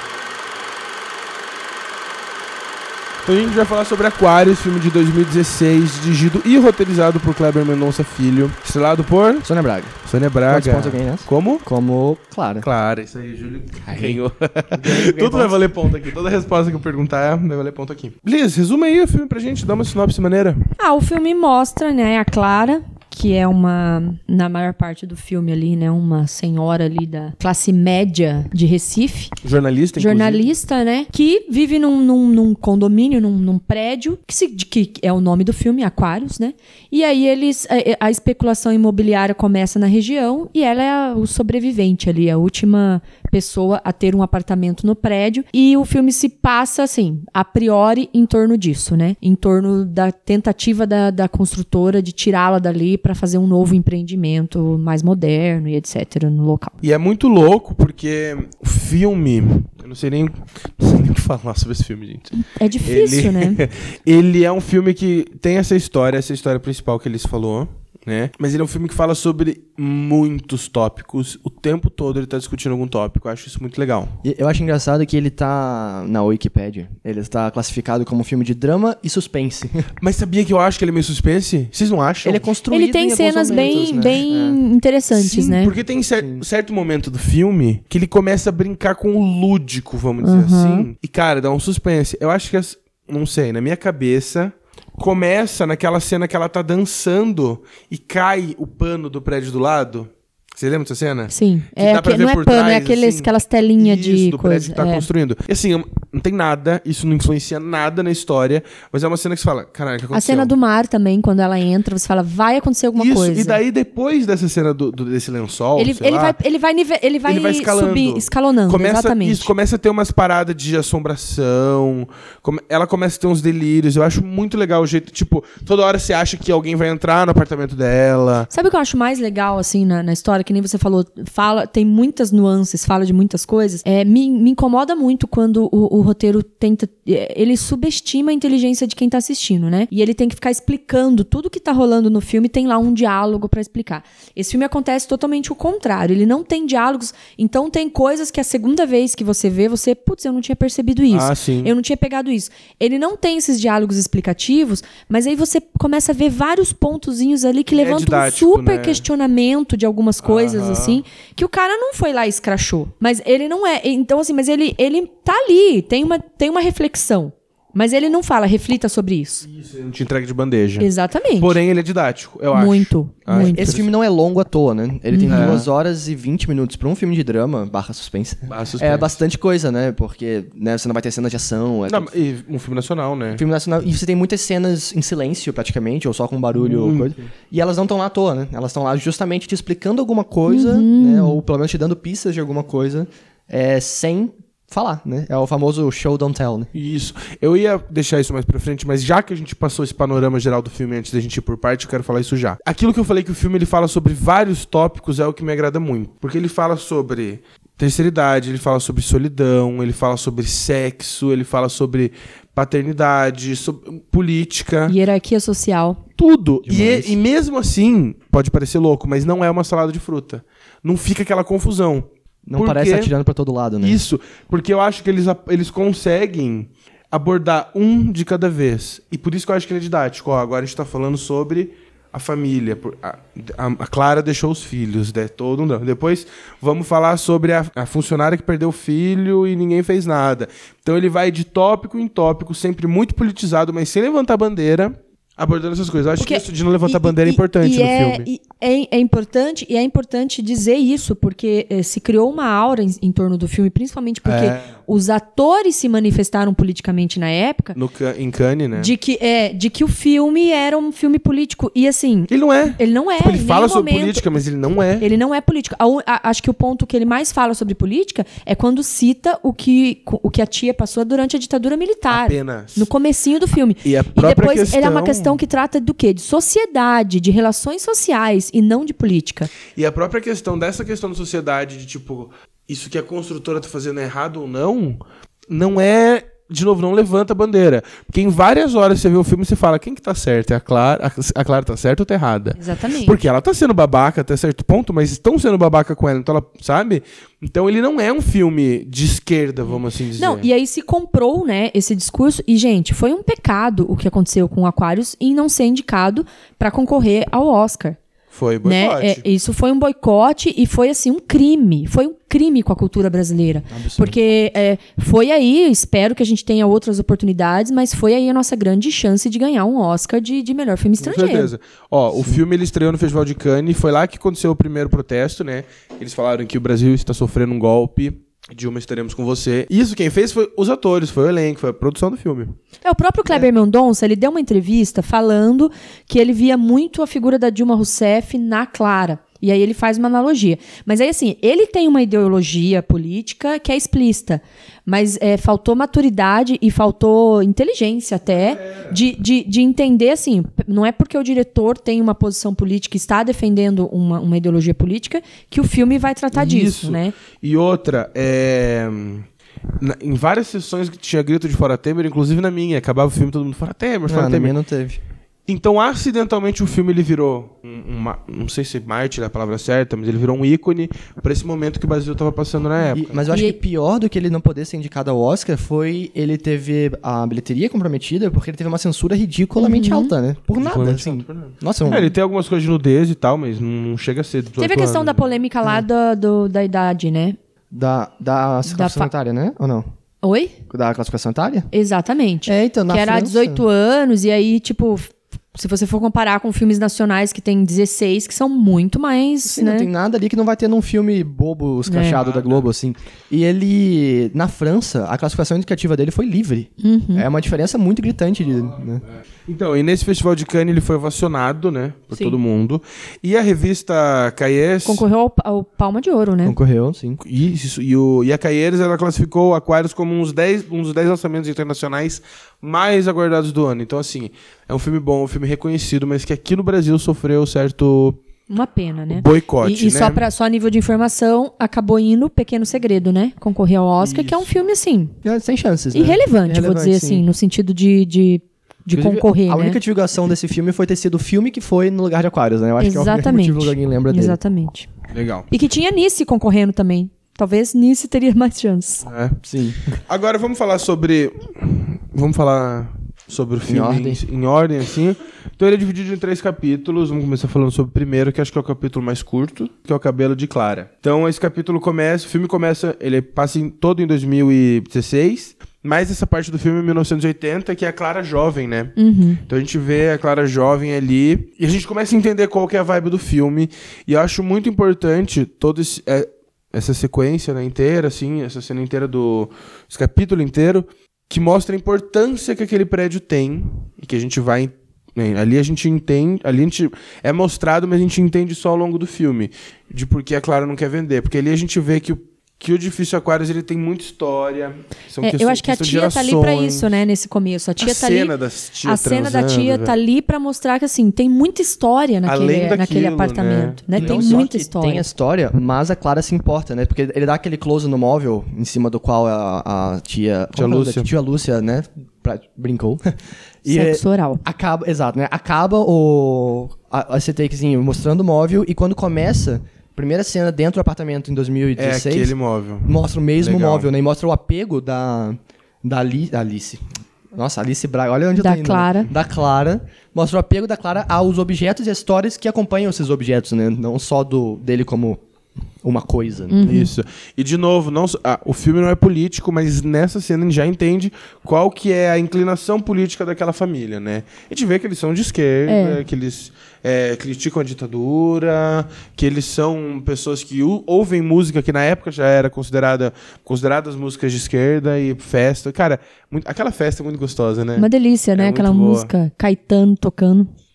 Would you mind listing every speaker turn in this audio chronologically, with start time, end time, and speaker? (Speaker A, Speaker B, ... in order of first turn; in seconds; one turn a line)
Speaker A: 3.2-9.5
Speaker B: 9.4-10.0
Speaker A: 10.1-11.6
Speaker B: 10.5-12.7
Speaker A: 12.6-20.7
Speaker B: 13.9-14.2
Speaker B: 14.7-15.6
Speaker C: 20.8-29.3
Speaker A: 29.4-30.5
Speaker C: 30.0-56.7
Speaker A: 56.8-74.2
Speaker C: 62.4-63.6
Speaker B: 74.2-79.9
Speaker A: 80.0-82.5
Speaker B: 82.2-84.6
Speaker C: 82.7-85.7
Speaker A: 85.1-110.5
Speaker B: 86.2-86.4
Speaker C: 90.2-90.9
Speaker C: 101.3-105.1
Speaker C: 110.1-113.6
Speaker A: 113.0-116.4
Speaker C: 115.8-119.5
Speaker A: 117.3-128.5
Speaker C: 128.5-169.5
Speaker A: 151.1-151.7
Speaker A: 157.8-159.1
Speaker A: 160.2-161.0
Speaker A: 169.5-173.9
Speaker C: 170.8-171.6
Speaker C: 172.5-173.7
Speaker B: 173.3-182.1
Speaker C: 175.1-175.7
Speaker A: 175.3-175.7
Speaker A: 178.5-179.2
Speaker A: 181.9-183.4
Speaker B: 183.3-196.7
Speaker A: 186.6-187.1
Speaker C: 190.5-191.4
Speaker A: 196.7-215.0
Speaker C: 214.9-216.0
Speaker A: 216.2-223.1
Speaker B: 216.7-217.2
Speaker B: 222.5-224.0
Speaker A: 223.8-248.3
Speaker C: 246.2-257.8
Speaker A: 254.2-254.7
Speaker A: 257.8-258.9
Speaker C: 258.8-264.2
Speaker A: 262.3-265.1
Speaker C: 265.0-279.5
Speaker A: 272.1-272.9
Speaker A: 273.8-275.4
Speaker A: 279.8-300.5
Speaker C: 292.6-293.2
Speaker C: 300.2-308.0
Speaker A: 308.3-309.2
Speaker C: 308.6-321.5
Speaker B: 313.7-314.2
Speaker A: 321.0-332.6
Speaker C: 332.8-357.1
Speaker A: 348.3-349.0
Speaker A: 356.3-359.3
Speaker A: 359.8-364.6
Speaker B: 364.1-365.0
Speaker A: 365.5-373.2
Speaker B: 372.9-382.1
Speaker C: 373.3-373.6
Speaker C: 379.6-380.1
Speaker A: 380.6-385.4
Speaker C: 384.6-387.4
Speaker B: 387.7-389.9
Speaker C: 388.7-389.1
Speaker C: 390.2-390.6
Speaker B: 390.7-391.7
Speaker C: 391.7-399.9
Speaker B: 392.5-393.6
Speaker B: 399.5-409.0
Speaker C: 401.9-402.2
Speaker A: 402.1-402.6
Speaker C: 406.8-407.3
Speaker A: 409.5-415.1
Speaker C: 414.9-416.6
Speaker B: 416.4-417.2
Speaker A: 417.2-428.2
Speaker C: 428.5-435.1
Speaker A: 429.1-430.2
Speaker A: 434.0-434.6
Speaker B: 435.2-437.2
Speaker C: 435.9-439.8
Speaker B: 438.9-444.4
Speaker C: 442.8-444.9
Speaker A: 445.1-445.5
Speaker C: 445.5-449.1
Speaker A: 449.0-449.4
Speaker B: 449.4-449.9
Speaker A: 449.9-496.9
Speaker B: 453.7-454.2
Speaker C: 469.0-469.4
Speaker C: 495.2-498.3
Speaker A: 497.8-499.9
Speaker C: 498.8-505.1
Speaker A: 502.3-504.4
Speaker B: 503.9-522.3
Speaker A: 510.6-511.1
Speaker C: 513.7-514.4
Speaker A: 521.8-523.9
Speaker B: 522.9-535.2
Speaker C: 528.4-529.1
Speaker B: 535.8-536.6
Speaker C: 536.5-536.9
Speaker A: 536.6-559.1
Speaker C: 545.7-546.0
Speaker C: 557.8-560.5